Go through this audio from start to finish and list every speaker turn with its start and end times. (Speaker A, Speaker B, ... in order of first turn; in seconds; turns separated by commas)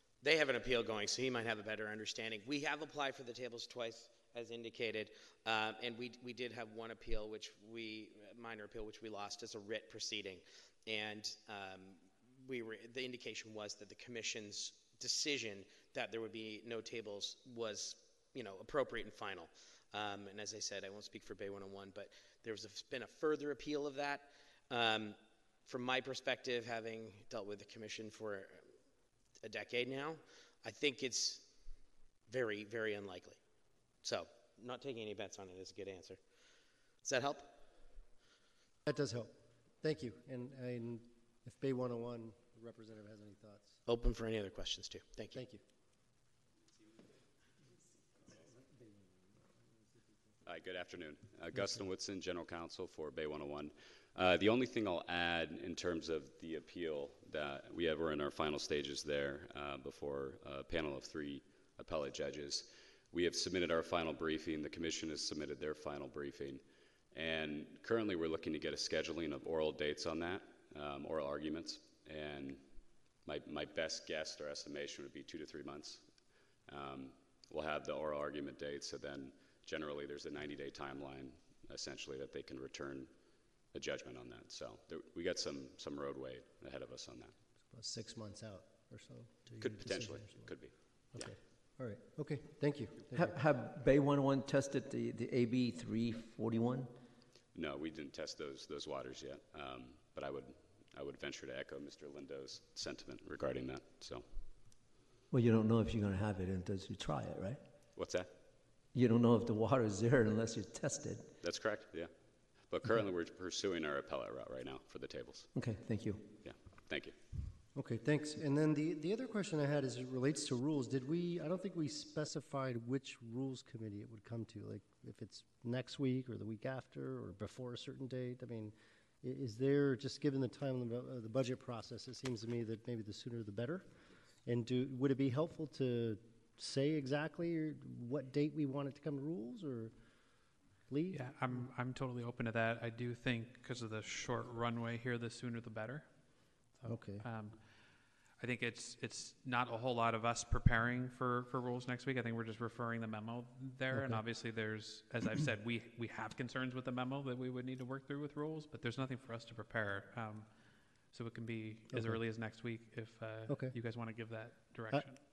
Speaker A: 0.2-28.6, Speaker A: 29.4-31.5, Speaker A: 32.3-33.4, Speaker A: 34.0-36.2, Speaker A: 37.0-37.5, Speaker B: 38.8-43.8, Speaker A: 43.9-45.4, Speaker B: 45.3-45.6, Speaker C: 50.4-83.1, Speaker C: 83.7-87.3, Speaker B: 87.7-90.5, Speaker C: 89.6-91.3, Speaker B: 91.1-93.3, Speaker D: 93.1-96.9, Speaker C: 97.5-104.3, Speaker D: 105.3-107.6, Speaker C: 108.0-108.3, Speaker D: 108.9-111.3, Speaker C: 111.4-112.1, Speaker C: 112.6-115.5, Speaker D: 115.5-116.2, Speaker C: 116.4-117.1, Speaker B: 117.7-133.8, Speaker B: 134.4-139.9, Speaker B: 140.9-141.6, Speaker E: 141.1-146.1, Speaker E: 146.8-147.6, Speaker B: 146.8-147.2, Speaker E: 148.4-160.5, Speaker B: 153.9-154.2, Speaker E: 161.1-165.2, Speaker B: 161.9-162.2, Speaker B: 163.5-163.7